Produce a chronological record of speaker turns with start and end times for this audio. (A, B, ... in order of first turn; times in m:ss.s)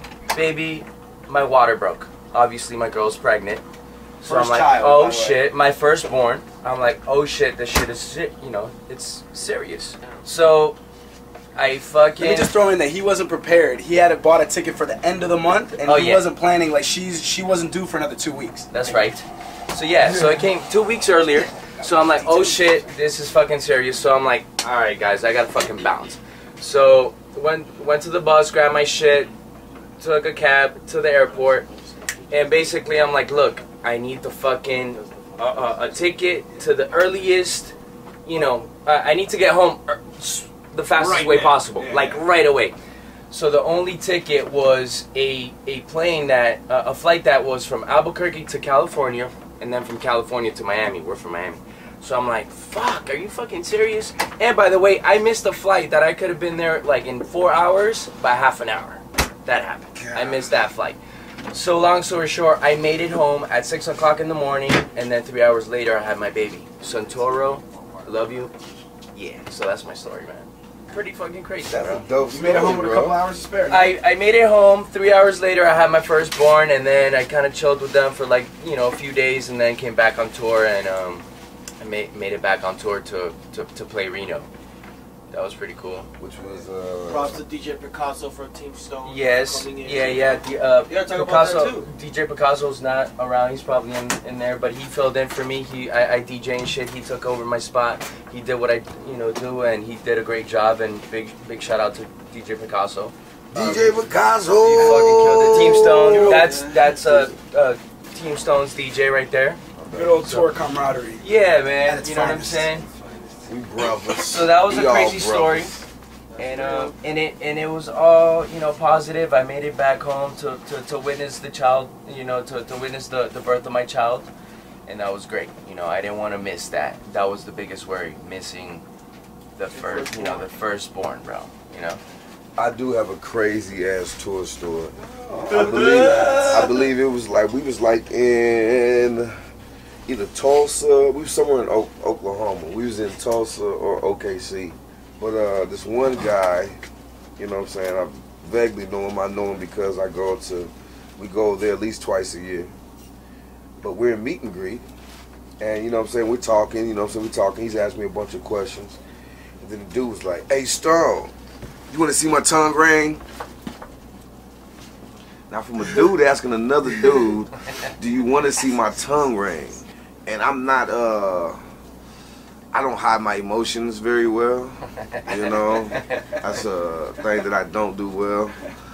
0:00.3-0:03.6 A
0:04.2-0:10.8 A
0:04.2-0:05.4 B
0:11.6-0:12.5 A
0:12.3-0:19.0 C
0:15.8-0:16.3 A
0:18.7-0:29.3 A
0:22.1-0:22.5 C
0:30.0-0:31.7 A
0:32.3-0:37.7 A
0:38.2-0:42.8 A
0:41.0-0:42.1 B
0:43.3-1:01.0 A
0:59.9-1:00.6 D
1:01.5-1:08.5 A
1:09.1-1:12.0 A
1:11.7-1:13.2 D
1:12.3-1:13.9 C
1:13.7-1:21.3 A
1:21.8-1:24.5 A
1:25.3-1:26.1 A
1:26.2-1:27.4 D
1:27.1-1:31.9 B
1:29.1-1:43.1 A
1:43.5-1:46.5 D
1:43.5-1:44.0 C
1:44.7-1:49.6 A
1:45.0-1:47.0 B
1:49.8-1:50.3 D
1:50.0-1:51.3 C
1:50.2-1:50.5 A
1:51.2-1:52.9 A
1:51.8-1:52.7 C
1:53.4-1:55.8 D
1:54.1-1:55.8 A
1:56.4-1:56.9 B
1:56.4-2:04.3 A
2:04.9-2:08.8 A
2:09.6-2:12.0 A
2:09.7-2:10.5 B
2:12.6-2:19.3 D
2:15.6-2:16.1 B
2:20.1-2:26.8 D
2:27.4-2:32.7 D
2:33.8-2:34.8 D
2:35.6-2:39.0 D
2:39.6-2:41.3 D
2:41.9-2:43.2 D
2:45.5-2:51.6 D
2:52.7-2:58.7 D